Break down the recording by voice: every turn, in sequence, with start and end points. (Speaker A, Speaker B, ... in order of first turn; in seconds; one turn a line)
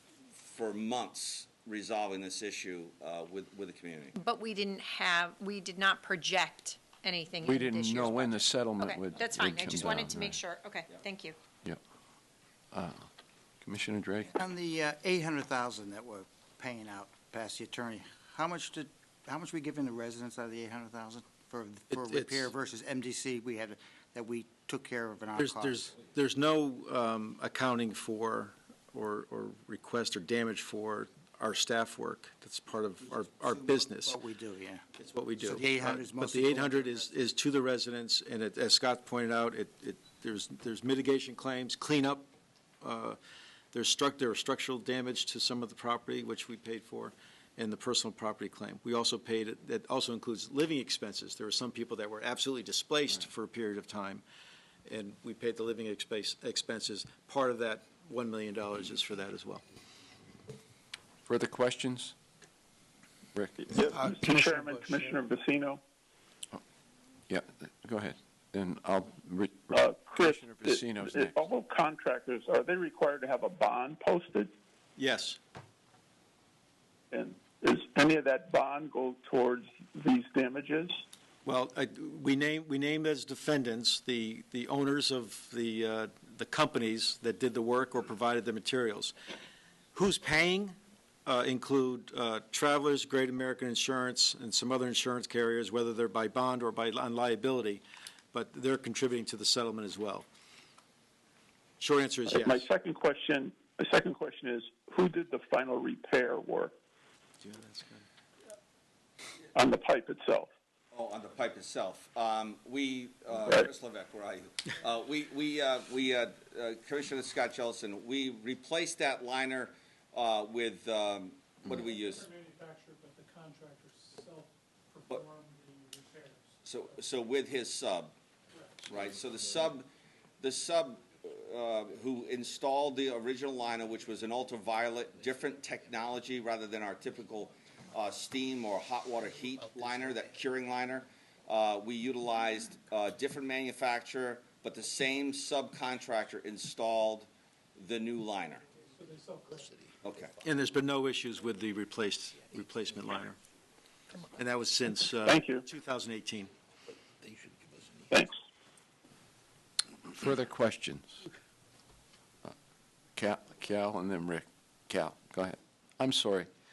Speaker A: 0.4-4.2
Speaker B: 4.2-11.4
Speaker C: 7.4-10.4
Speaker C: 12.7-13.1
Speaker C: 13.6-14.3
Speaker D: 14.3-25.9
Speaker E: 21.9-22.5
Speaker E: 25.4-34.1
Speaker D: 33.2-34.9
Speaker E: 35.0-42.3
Speaker D: 35.4-37.1
Speaker E: 42.8-43.2
Speaker E: 43.7-54.2
Speaker E: 54.9-59.6
Speaker C: 61.2-62.1
Speaker C: 63.3-63.6
Speaker F: 63.6-65.8
Speaker E: 64.0-64.3
Speaker C: 67.3-71.4
Speaker F: 69.7-74.5
Speaker E: 75.0-75.4
Speaker F: 77.1-81.0
Speaker E: 81.4-89.1
Speaker E: 89.9-100.2
Speaker E: 101.8-102.7
Speaker F: 102.3-106.7
Speaker E: 107.4-108.0
Speaker F: 109.5-110.5
Speaker A: 110.9-122.3
Speaker G: 121.8-127.0
Speaker A: 126.6-128.1
Speaker G: 128.5-129.1
Speaker A: 128.9-129.9
Speaker A: 130.4-148.6
Speaker G: 148.9-149.8
Speaker A: 150.0-150.3
Speaker E: 150.4-153.4
Speaker E: 154.3-156.5
Speaker F: 155.2-155.6
Speaker F: 158.1-158.4
Speaker C: 160.1-161.2
Speaker C: 163.1-166.5